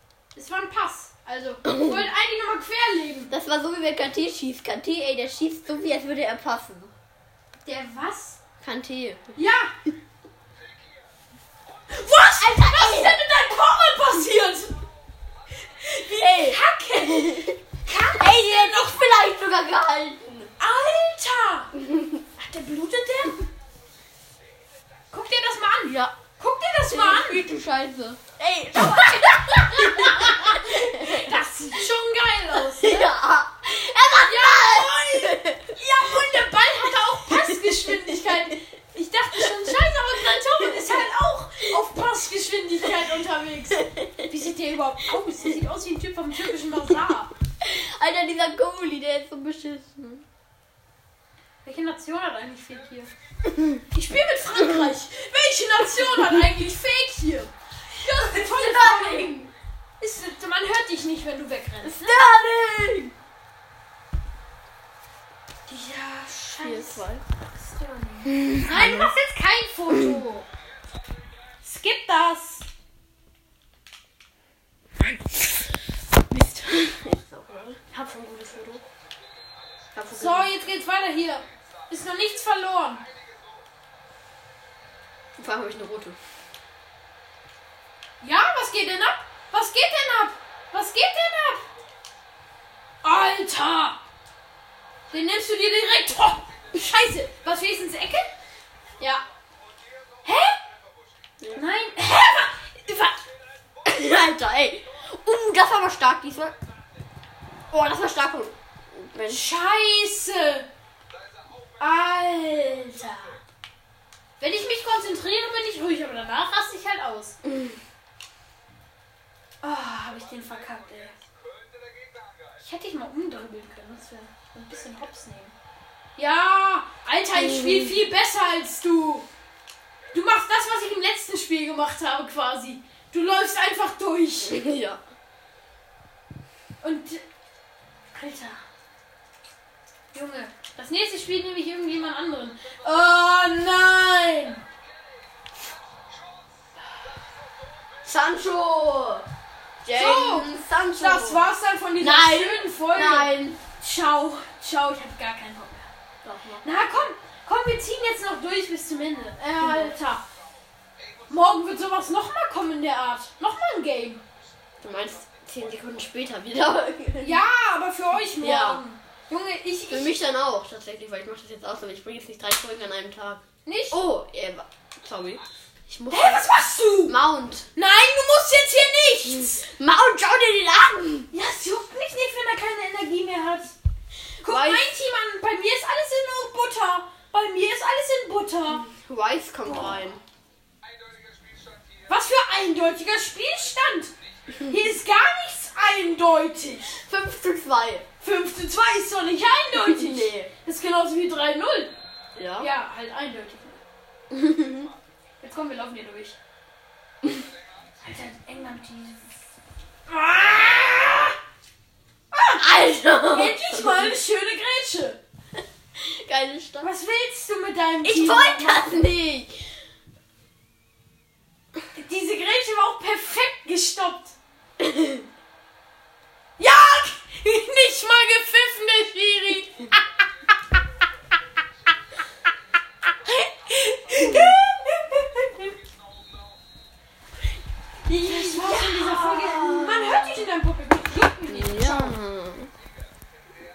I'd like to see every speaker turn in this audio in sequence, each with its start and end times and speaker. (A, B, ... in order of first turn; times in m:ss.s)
0:00.4-0:03.3 A
0:01.6-0:02.1 B
0:03.3-0:06.9 B
0:07.6-0:08.4 A
0:08.6-0:09.4 B
0:09.4-0:09.7 A
0:11.9-0:14.8 A
0:12.3-0:13.2 B
0:15.8-0:19.0 A
0:16.0-0:17.6 B
0:18.2-0:20.5 B
0:20.6-0:21.7 A
0:21.8-0:22.2 B
0:22.4-0:23.5 A
0:25.1-0:27.5 A
0:25.8-0:26.2 B
0:26.9-0:31.4 B
0:28.8-0:33.1 A
0:32.8-0:35.8 B
0:34.2-0:47.3 A
0:37.3-0:38.0 B
0:40.7-0:41.0 B
0:43.8-0:44.3 B
0:47.6-0:50.2 B
0:51.6-0:53.1 A
0:53.9-0:59.3 A
0:58.1-0:59.5 B
1:00.0-1:02.2 A
1:01.8-1:03.1 B
1:05.7-1:10.5 A
1:06.6-1:07.2 B
1:08.2-1:09.1 B
1:09.9-1:10.2 B
1:11.6-1:12.7 A
1:16.3-1:17.9 B
1:17.9-1:18.8 A
1:19.9-1:20.6 B
1:20.1-1:23.0 A
1:25.4-1:26.2 B
1:28.2-1:31.7 A
1:33.0-1:34.0 A
1:35.1-1:38.3 A
1:40.2-1:40.6 A
1:41.5-1:43.2 A
1:43.8-1:46.6 B
1:47.7-1:49.5 B
1:49.3-1:50.7 A
1:51.8-1:53.4 A
1:54.4-1:57.4 A
1:57.4-1:57.8 B
1:59.6-2:01.2 A
2:02.6-2:05.6 A
2:06.2-2:09.3 A
2:07.4-2:08.0 B
2:10.1-2:14.6 A
2:14.4-2:15.0 B
2:16.8-2:17.2 A
2:18.1-2:18.6 A
2:20.1-2:24.6 A
2:28.0-2:29.3 B
2:29.8-2:33.6 B
2:29.9-2:35.9 A
2:36.2-2:36.6 B
2:36.6-2:40.2 A
2:39.6-2:39.9 B
2:41.3-2:44.2 A
2:44.8-2:47.4 B
2:47.2-2:50.1 A
2:48.3-2:48.8 B
2:49.9-2:56.5 B
2:53.6-2:54.0 A
2:56.1-2:57.2 A
2:57.0-2:57.7 B
2:57.8-2:59.6 A
2:59.6-3:01.3 B
3:01.3-3:03.7 A
3:04.4-3:08.8 A
3:04.4-3:04.9 B
3:08.7-3:10.2 B
3:09.6-3:10.0 A
3:12.1-3:17.0 A
3:17.1-3:18.1 B
3:18.2-3:21.9 A
3:19.7-3:20.5 B
3:22.4-3:22.7 B
3:22.6-3:23.8 A
3:24.3-3:24.9 B
3:25.4-3:26.4 A
3:28.0-3:29.4 A
3:30.1-3:31.4 A
3:32.3-3:32.7 A
3:32.6-3:34.2 B
3:33.3-3:35.2 A
3:36.0-3:36.9 B
3:36.8-3:38.8 A
3:38.0-3:39.6 B
3:41.9-3:44.4 A
3:44.8-3:45.2 B
3:46.6-3:50.0 A
3:53.2-3:55.7 A
3:54.2-3:54.6 B
3:58.1-4:00.4 B
3:58.2-4:02.2 A
4:01.5-4:02.7 B